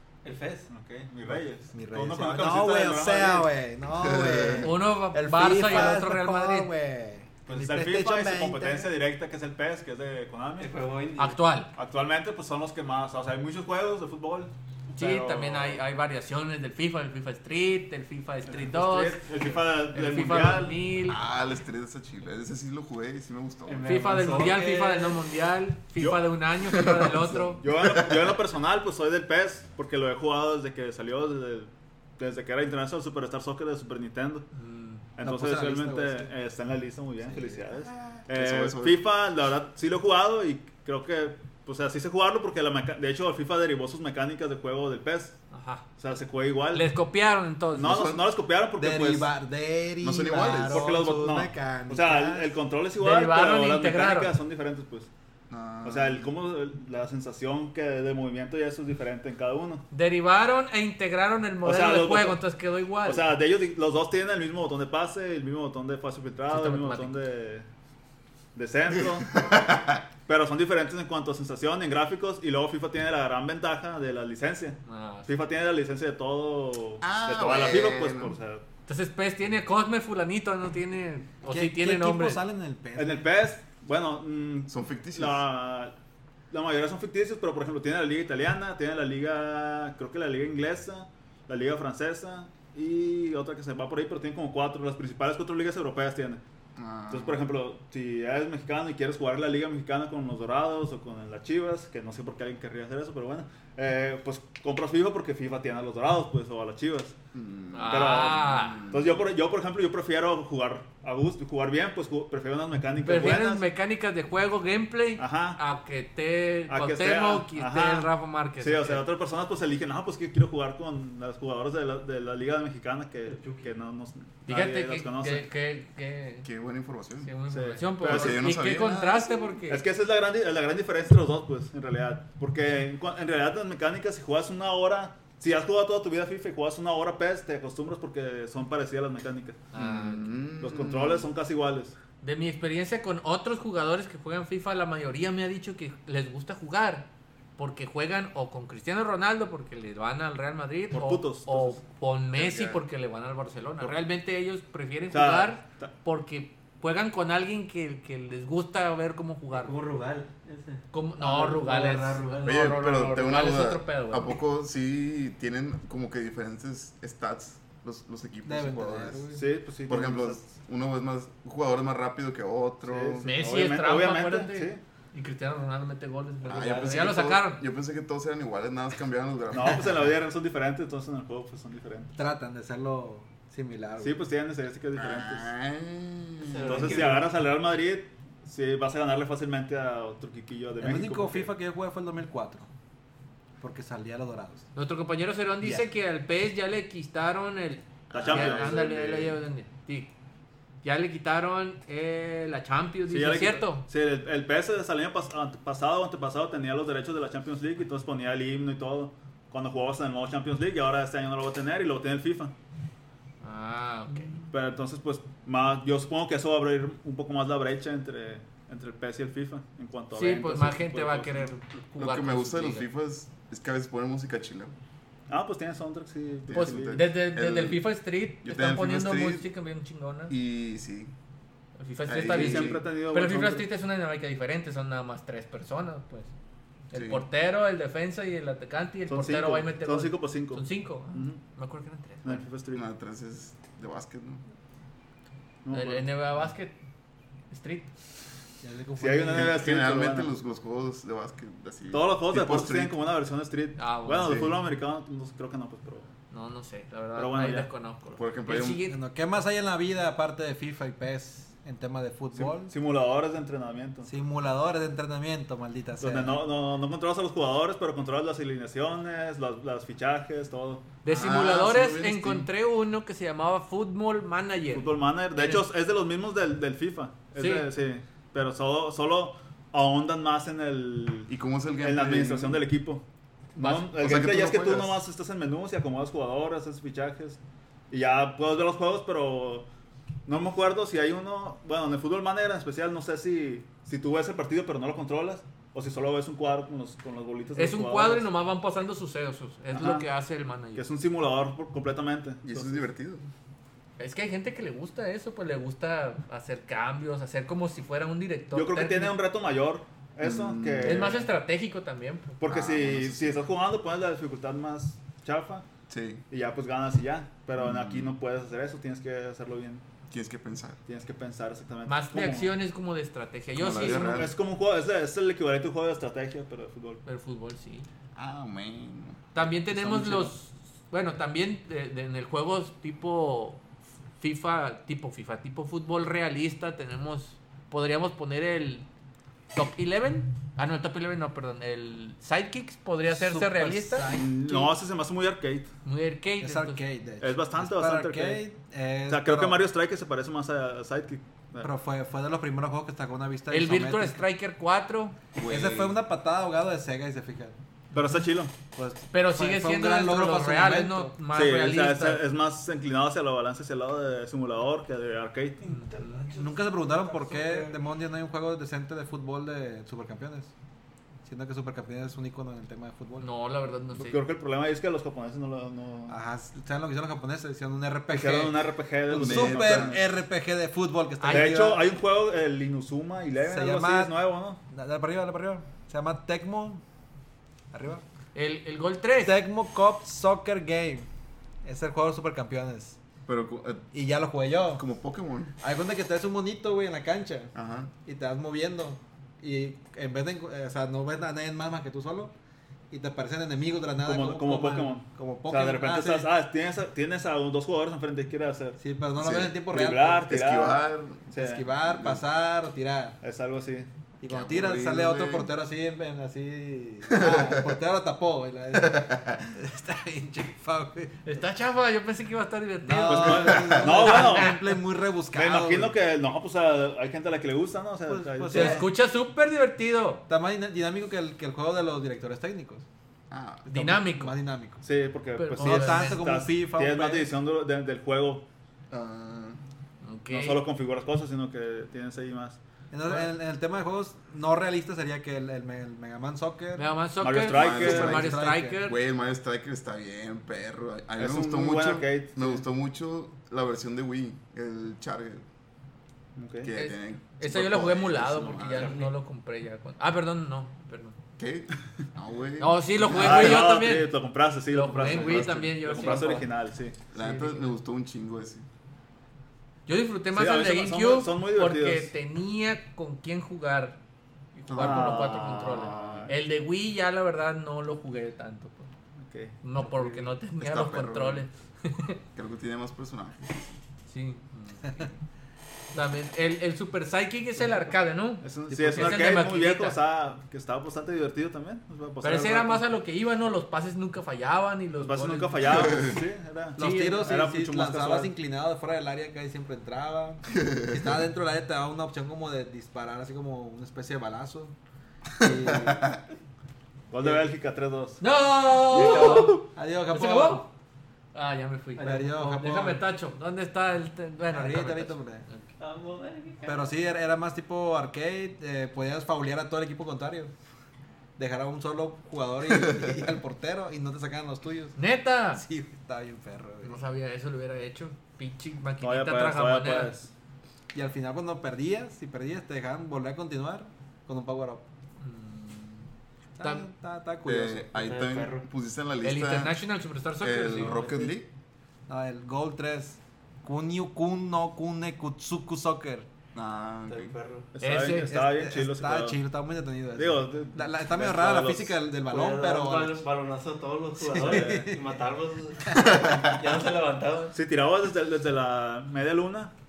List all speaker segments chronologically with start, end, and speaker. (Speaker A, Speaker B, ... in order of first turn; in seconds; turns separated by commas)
Speaker A: 0.2-0.7, Speaker B: 0.7-3.5, Speaker C: 1.7-8.9, Speaker D: 4.0-4.7, Speaker E: 4.6-6.7, Speaker B: 5.7-6.0, Speaker B: 7.5-10.7, Speaker A: 10.6-11.4, Speaker E: 11.2-11.7, Speaker B: 11.8-15.8, Speaker E: 14.9-21.2, Speaker B: 18.5-20.8, Speaker D: 21.1-23.9, Speaker A: 23.7-25.2, Speaker E: 23.8-27.6, Speaker B: 26.0-26.2, Speaker D: 26.7-28.2, Speaker B: 27.6-34.5, Speaker E: 34.6-35.0, Speaker B: 35.2-45.4, Speaker C: 35.2-36.3, Speaker C: 37.3-37.6, Speaker D: 38.1-39.0, Speaker E: 45.5-45.9, Speaker B: 46.0-46.9, Speaker E: 46.7-48.0, Speaker D: 47.8-48.2, Speaker B: 47.8-49.3, Speaker C: 48.8-52.5, Speaker D: 50.0-50.9, Speaker B: 50.6-55.1, Speaker E: 53.0-54.3, Speaker D: 55.5-56.3, Speaker B: 55.8-59.9, Speaker E: 59.9-63.2, Speaker B: 61.6-62.4, Speaker B: 63.0-67.7, Speaker E: 66.5-67.2, Speaker B: 68.5-69.5, Speaker D: 69.3-70.0, Speaker B: 70.3-78.6, Speaker E: 74.9-75.3, Speaker D: 77.0-78.4, Speaker E: 78.9-82.4, Speaker C: 81.5-83.3, Speaker B: 83.0-85.9, Speaker D: 84.7-85.4, Speaker B: 86.5-96.4, Speaker D: 96.8-97.5, Speaker B: 97.1-107.2, Speaker D: 107.3-109.2, Speaker E: 107.7-108.9, Speaker B: 107.9-113.6, Speaker E: 113.0-119.0, Speaker B: 115.2-115.6, Speaker B: 116.7-125.5, Speaker A: 123.3-123.7, Speaker E: 124.5-126.5, Speaker D: 126.4-127.3, Speaker E: 127.2-129.8, Speaker B: 127.5-128.5, Speaker D: 128.0-129.6, Speaker B: 129.7-139.6, Speaker E: 139.7-140.3, Speaker D: 139.8-141.3, Speaker B: 140.6-142.0, Speaker E: 142.2-159.7, Speaker B: 150.9-151.8, Speaker D: 152.3-152.8, Speaker B: 155.1-155.9, Speaker A: 159.5-162.7, Speaker E: 160.9-164.4, Speaker D: 162.4-169.3, Speaker C: 168.4-169.4, Speaker B: 169.3-170.4, Speaker D: 169.9-173.3, Speaker B: 172.8-174.8, Speaker E: 173.2-177.6, Speaker A: 176.4-177.1, Speaker D: 176.5-180.1, Speaker B: 179.5-182.1, Speaker C: 182.2-184.2, Speaker B: 184.0-185.5, Speaker D: 185.0-187.0, Speaker A: 186.4-187.3, Speaker B: 186.7-191.5, Speaker C: 190.8-192.7, Speaker C: 193.6-194.7, Speaker E: 194.8-200.1, Speaker D: 198.1-199.1, Speaker B: 198.1-199.3, Speaker E: 200.8-203.9, Speaker B: 203.1-212.5, Speaker E: 213.4-214.4, Speaker B: 214.5-221.5, Speaker E: 220.1-222.9, Speaker D: 222.0-224.8, Speaker B: 225.3-227.0, Speaker D: 226.5-227.8, Speaker E: 226.5-230.3, Speaker D: 228.4-229.5, Speaker D: 230.3-231.1, Speaker E: 231.8-236.3, Speaker D: 232.1-232.8, Speaker B: 232.1-233.7, Speaker E: 236.9-242.4, Speaker D: 236.9-237.2, Speaker B: 239.1-241.4, Speaker B: 242.2-242.8, Speaker D: 242.7-244.4, Speaker B: 245.6-246.1, Speaker E: 245.7-246.8, Speaker E: 247.5-247.9, Speaker C: 248.6-249.6, Speaker B: 249.0-250.3, Speaker D: 249.3-253.0, Speaker B: 251.9-256.1, Speaker E: 253.8-254.5, Speaker D: 254.1-254.5, Speaker E: 256.3-259.0, Speaker B: 257.2-257.7, Speaker D: 258.1-258.8, Speaker C: 258.9-262.7, Speaker B: 262.4-264.1, Speaker C: 264.1-266.4, Speaker B: 266.0-271.0, Speaker E: 271.0-275.6, Speaker D: 271.1-272.5, Speaker B: 274.7-283.0, Speaker E: 277.4-277.7, Speaker D: 281.3-282.6, Speaker B: 283.6-287.4, Speaker E: 283.6-283.9, Speaker D: 283.9-285.0, Speaker B: 287.9-289.7, Speaker B: 290.3-298.3, Speaker E: 297.6-300.9, Speaker B: 299.7-300.1, Speaker B: 300.8-302.9, Speaker D: 302.4-303.3, Speaker E: 304.0-309.2, Speaker B: 308.5-311.3, Speaker D: 310.2-311.1, Speaker E: 310.8-312.4, Speaker B: 312.4-315.6, Speaker D: 312.4-313.4, Speaker D: 315.9-316.2, Speaker B: 316.3-319.9, Speaker D: 317.6-318.1, Speaker D: 320.1-320.8, Speaker B: 320.9-322.6, Speaker E: 321.9-324.3, Speaker D: 323.6-324.4, Speaker B: 323.7-327.0, Speaker E: 327.1-327.9, Speaker D: 328.1-330.3, Speaker E: 329.3-333.6, Speaker E: 334.2-338.9, Speaker E: 339.5-344.1, Speaker C: 343.1-344.7, Speaker B: 344.1-345.7, Speaker E: 345.9-346.8, Speaker C: 346.4-349.6, Speaker B: 347.2-348.5, Speaker B: 349.1-351.7, Speaker C: 351.6-354.2, Speaker E: 353.5-355.2, Speaker D: 355.4-356.0, Speaker C: 355.5-357.6, Speaker B: 357.9-358.5, Speaker C: 358.8-361.2, Speaker E: 359.1-362.2, Speaker B: 361.3-365.9, Speaker E: 365.7-366.2, Speaker A: 365.8-367.6, Speaker C: 366.3-370.5, Speaker C: 371.2-373.3, Speaker E: 373.2-374.2, Speaker B: 373.9-376.2, Speaker C: 376.1-381.9, Speaker B: 378.1-380.0, Speaker D: 379.2-380.0, Speaker E: 381.2-381.5, Speaker B: 381.3-384.6, Speaker C: 383.4-384.1, Speaker C: 384.7-386.8, Speaker C: 387.7-388.0, Speaker E: 388.3-389.4, Speaker C: 389.2-391.1, Speaker C: 391.6-393.0, Speaker D: 393.3-393.9, Speaker C: 393.9-394.9, Speaker D: 394.7-395.5, Speaker C: 395.6-397.5, Speaker D: 397.6-397.9, Speaker C: 398.1-402.3, Speaker C: 402.9-406.3, Speaker B: 404.0-408.8, Speaker C: 408.8-410.3, Speaker D: 409.2-409.5, Speaker B: 409.7-411.7, Speaker D: 410.3-411.3, Speaker C: 411.4-413.2, Speaker D: 411.8-412.2, Speaker B: 413.2-413.9, Speaker C: 414.2-421.2, Speaker D: 414.3-415.5, Speaker D: 417.1-417.7, Speaker D: 418.8-419.5, Speaker E: 421.2-424.6, Speaker C: 422.8-425.9, Speaker B: 423.0-424.7, Speaker B: 425.3-428.9, Speaker C: 428.1-428.9, Speaker E: 428.5-430.2, Speaker C: 430.3-432.9, Speaker D: 433.3-433.7, Speaker C: 433.6-434.8, Speaker E: 433.7-434.3, Speaker B: 434.8-438.4, Speaker E: 435.4-436.3, Speaker C: 435.6-437.4, Speaker D: 438.9-439.6, Speaker E: 440.0-440.6, Speaker B: 440.3-443.2, Speaker C: 442.9-446.9, Speaker E: 446.8-449.0, Speaker B: 447.2-448.2, Speaker D: 447.5-455.4, Speaker C: 447.8-448.8, Speaker B: 451.2-452.6, Speaker B: 456.4-456.7, Speaker D: 456.6-459.0, Speaker E: 456.8-461.1, Speaker A: 458.6-459.1, Speaker D: 461.4-463.7, Speaker E: 462.6-464.1, Speaker B: 463.1-467.0, Speaker E: 464.7-466.5, Speaker D: 465.0-466.0, Speaker D: 467.1-468.7, Speaker E: 467.1-467.8, Speaker E: 469.9-474.0, Speaker B: 470.3-472.1, Speaker E: 474.6-478.9, Speaker D: 474.7-476.3, Speaker B: 474.7-476.4, Speaker B: 479.2-479.6, Speaker E: 479.6-482.2, Speaker A: 479.9-480.3, Speaker D: 480.6-481.5, Speaker D: 482.3-483.8, Speaker E: 484.1-485.1, Speaker E: 485.9-490.0, Speaker B: 488.4-492.9, Speaker C: 488.7-489.2, Speaker E: 492.2-496.1, Speaker B: 495.0-498.3, Speaker D: 495.7-496.2, Speaker E: 496.8-497.3, Speaker C: 496.8-504.7, Speaker D: 500.6-501.0, Speaker C: 505.4-506.2, Speaker D: 505.4-506.2, Speaker B: 507.1-508.2, Speaker E: 508.2-510.7, Speaker C: 508.9-510.7, Speaker E: 511.3-515.6, Speaker A: 512.0-512.3, Speaker C: 512.0-513.1, Speaker C: 514.5-515.5, Speaker A: 515.8-516.9, Speaker C: 516.6-520.5, Speaker C: 521.4-525.0, Speaker E: 525.0-525.6, Speaker C: 525.5-527.0, Speaker E: 526.8-530.1, Speaker B: 529.0-530.3, Speaker C: 530.9-534.8, Speaker E: 535.2-536.1, Speaker C: 536.6-538.1, Speaker E: 536.6-536.9, Speaker D: 537.5-539.8, Speaker A: 538.0-538.7, Speaker E: 539.2-541.0, Speaker D: 540.4-541.5, Speaker A: 540.8-541.3, Speaker C: 542.1-546.3, Speaker D: 546.5-547.4, Speaker A: 547.1-547.7, Speaker B: 547.7-549.4, Speaker E: 547.8-548.3, Speaker C: 548.3-553.2, Speaker B: 550.2-552.0, Speaker A: 552.3-557.6, Speaker C: 554.2-555.2, Speaker B: 554.3-554.9, Speaker C: 555.8-556.4, Speaker B: 557.5-559.7